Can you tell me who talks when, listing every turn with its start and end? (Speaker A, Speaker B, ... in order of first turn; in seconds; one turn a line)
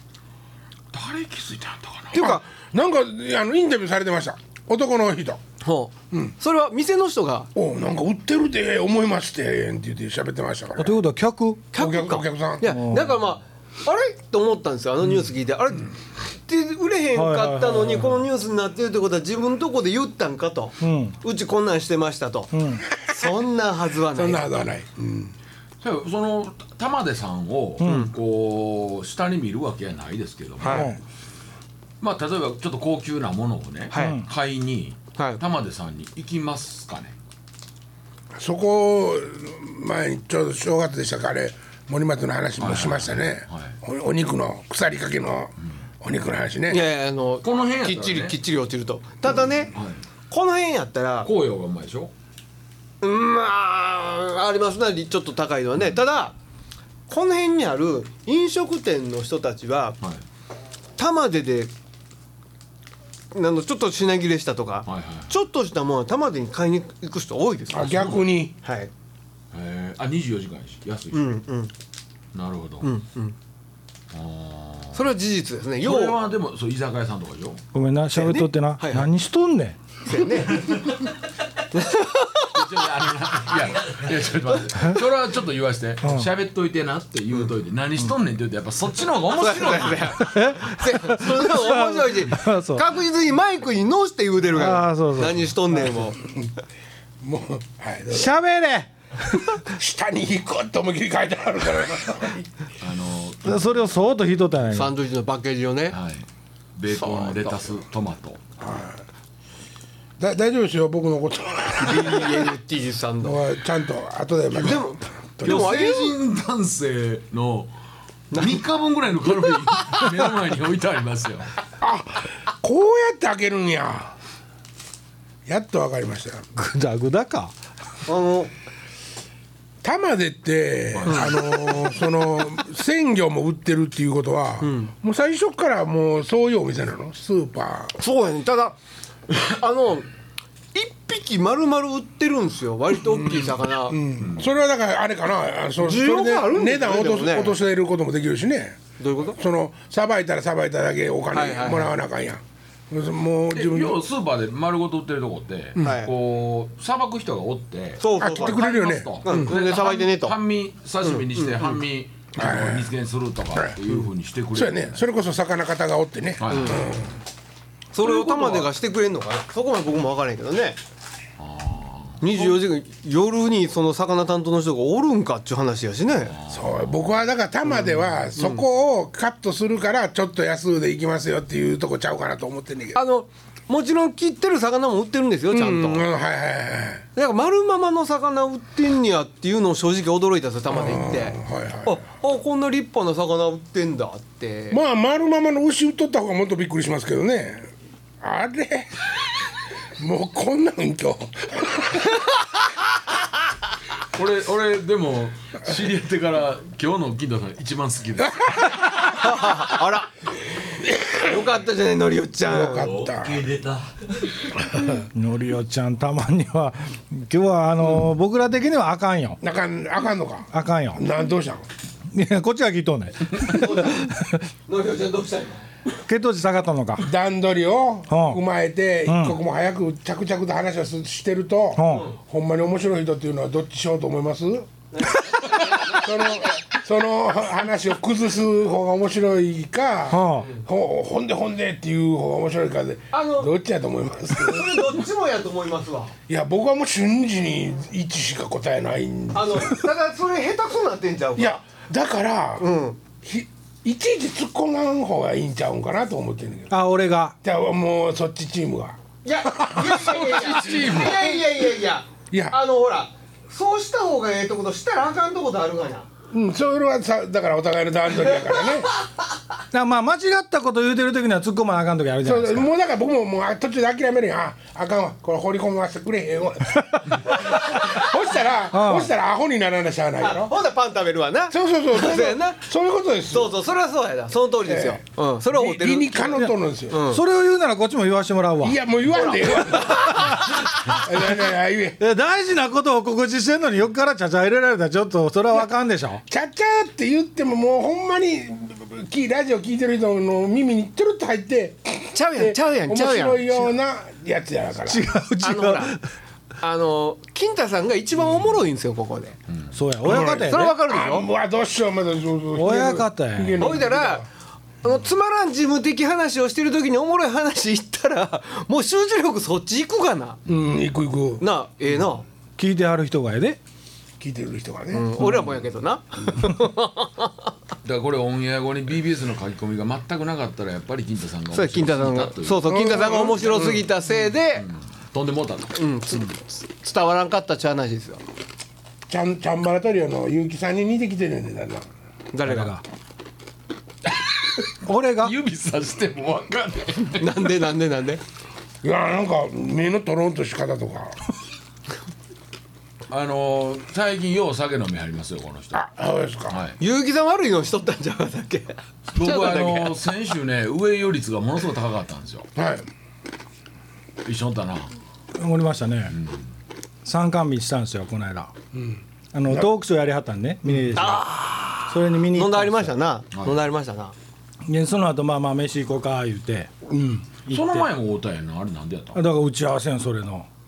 Speaker A: 0.9-2.4
Speaker B: 2.1-2.5
Speaker C: 2.2-5.4
Speaker B: 5.6-7.5
Speaker C: 7.5-11.0
Speaker D: 10.8-11.7
Speaker B: 11.7-24.5
Speaker C: 11.7-12.7
Speaker D: 12.6-13.1
Speaker D: 17.1-18.2
Speaker D: 20.8-21.1
Speaker D: 22.5-22.8
Speaker C: 24.1-25.3
Speaker A: 25.8-30.9
Speaker D: 27.8-28.1
Speaker B: 27.8-28.1
Speaker B: 30.6-30.9
Speaker D: 30.7-31.0
Speaker A: 32.0-37.1
Speaker B: 33.9-34.2
Speaker D: 33.9-34.2
Speaker C: 38.4-46.8
Speaker A: 42.6-43.8
Speaker B: 46.7-49.7
Speaker A: 47.4-48.4
Speaker A: 49.7-50.0
Speaker B: 50.3-51.3
Speaker A: 51.2-52.1
Speaker B: 53.0-56.3
Speaker B: 57.1-60.0
Speaker B: 61.0-61.7
Speaker B: 63.3-68.1
Speaker A: 64.8-65.3
Speaker C: 67.7-68.5
Speaker A: 67.8-68.3
Speaker B: 68.6-68.9
Speaker A: 69.5-71.3
Speaker B: 71.1-71.7
Speaker A: 72.3-72.9
Speaker B: 72.8-73.3
Speaker A: 74.1-75.1
Speaker B: 74.9-76.2
Speaker A: 75.8-77.6
Speaker D: 77.7-79.8
Speaker B: 78.1-79.1
Speaker B: 80.0-80.9
Speaker B: 81.7-82.8
Speaker A: 82.5-90.3
Speaker D: 86.0-86.3
Speaker B: 89.3-96.2
Speaker D: 90.2-92.8
Speaker D: 94.5-95.5
Speaker C: 97.2-98.3
Speaker D: 98.1-99.4
Speaker C: 99.5-102.5
Speaker A: 102.8-103.8
Speaker D: 103.4-104.9
Speaker B: 104.7-106.0
Speaker A: 105.9-106.2
Speaker A: 106.8-108.4
Speaker B: 106.9-107.7
Speaker C: 108.6-109.0
Speaker C: 110.2-112.5
Speaker B: 111.8-113.4
Speaker C: 113.2-115.7
Speaker B: 114.5-116.2
Speaker A: 115.4-117.7
Speaker B: 118.3-118.6
Speaker A: 118.3-121.5
Speaker B: 119.4-120.2
Speaker C: 121.8-124.1
Speaker C: 125.5-126.5
Speaker D: 126.5-127.5
Speaker B: 128.1-128.5
Speaker C: 129.8-137.9
Speaker A: 130.9-131.4
Speaker B: 131.1-131.7
Speaker B: 134.6-134.9
Speaker B: 138.0-138.7
Speaker B: 139.3-140.1
Speaker B: 140.7-144.0
Speaker C: 143.1-148.8
Speaker B: 145.8-147.6
Speaker B: 149.0-149.4
Speaker C: 149.4-154.0
Speaker B: 151.3-151.9
Speaker A: 153.5-165.0
Speaker B: 155.8-156.1
Speaker B: 158.0-158.7
Speaker C: 158.2-159.5
Speaker B: 159.2-160.3
Speaker B: 161.0-161.8
Speaker C: 162.4-162.9
Speaker C: 163.5-167.1
Speaker A: 166.4-166.9
Speaker B: 166.5-166.8
Speaker B: 167.9-170.8
Speaker A: 168.0-168.7
Speaker A: 171.4-172.2
Speaker B: 172.2-176.3
Speaker A: 176.3-177.1
Speaker C: 176.5-183.0
Speaker B: 177.7-178.6
Speaker B: 182.9-186.0
Speaker C: 185.5-187.0
Speaker B: 187.2-194.8
Speaker C: 190.7-192.0
Speaker C: 194.7-197.7
Speaker C: 198.2-199.1
Speaker C: 200.0-202.1
Speaker A: 204.1-208.9
Speaker B: 208.8-210.3
Speaker C: 210.8-211.4
Speaker B: 211.2-212.9
Speaker C: 212.5-213.5
Speaker A: 213.0-214.1
Speaker D: 214.8-219.4
Speaker C: 219.4-221.7
Speaker D: 220.5-221.0
Speaker D: 222.1-224.4
Speaker B: 223.5-224.1
Speaker B: 224.7-225.6
Speaker D: 226.1-227.0
Speaker C: 227.0-234.7
Speaker D: 228.1-228.4
Speaker D: 229.1-229.4
Speaker D: 231.8-232.1
Speaker B: 234.9-235.2
Speaker C: 235.8-245.0
Speaker D: 240.1-240.5
Speaker B: 243.1-243.5
Speaker B: 244.3-246.1
Speaker C: 246.3-249.9
Speaker B: 249.3-251.6
Speaker C: 251.4-252.7
Speaker B: 252.6-253.0
Speaker C: 253.2-256.7
Speaker D: 256.7-257.3
Speaker C: 257.4-259.0
Speaker B: 259.2-266.1
Speaker C: 259.5-260.2
Speaker A: 259.8-261.4
Speaker C: 261.1-261.4
Speaker C: 262.3-262.6
Speaker C: 266.3-268.9
Speaker D: 269.7-272.7
Speaker C: 272.2-280.5
Speaker D: 278.7-279.1
Speaker B: 280.2-282.6
Speaker C: 281.5-283.6
Speaker B: 283.3-287.2
Speaker C: 284.7-287.0
Speaker D: 286.4-288.8
Speaker C: 288.6-292.0
Speaker B: 289.1-290.2
Speaker D: 289.8-291.3
Speaker D: 292.0-296.2
Speaker C: 296.3-305.1
Speaker B: 302.1-303.7
Speaker D: 304.9-306.0
Speaker B: 305.4-306.0
Speaker B: 306.6-309.4
Speaker D: 309.7-310.8
Speaker B: 310.0-311.2
Speaker C: 310.0-314.2
Speaker D: 312.5-313.6
Speaker B: 313.6-314.2
Speaker B: 314.8-320.4
Speaker C: 320.5-321.4
Speaker B: 321.4-322.2
Speaker D: 322.6-323.6
Speaker C: 324.2-325.1
Speaker B: 324.9-327.5
Speaker A: 327.8-335.7
Speaker B: 331.5-334.6
Speaker C: 332.6-333.8
Speaker B: 335.7-338.2
Speaker C: 339.1-341.9
Speaker B: 342.3-342.7
Speaker D: 342.4-342.8
Speaker A: 344.1-347.6
Speaker D: 344.9-345.3
Speaker B: 347.1-348.2
Speaker C: 348.8-351.2
Speaker A: 353.1-355.8
Speaker C: 355.7-356.6
Speaker A: 356.5-356.8
Speaker B: 356.8-360.0
Speaker A: 359.1-362.5
Speaker C: 362.6-362.9
Speaker A: 364.2-364.9
Speaker D: 365.4-366.1
Speaker A: 366.1-366.4
Speaker D: 367.0-368.5
Speaker C: 368.7-369.7
Speaker D: 369.3-371.3
Speaker B: 370.9-374.1
Speaker D: 371.9-372.9
Speaker D: 374.6-376.7
Speaker C: 376.9-377.2
Speaker D: 377.5-377.9
Speaker A: 377.5-379.2
Speaker D: 379.1-380.5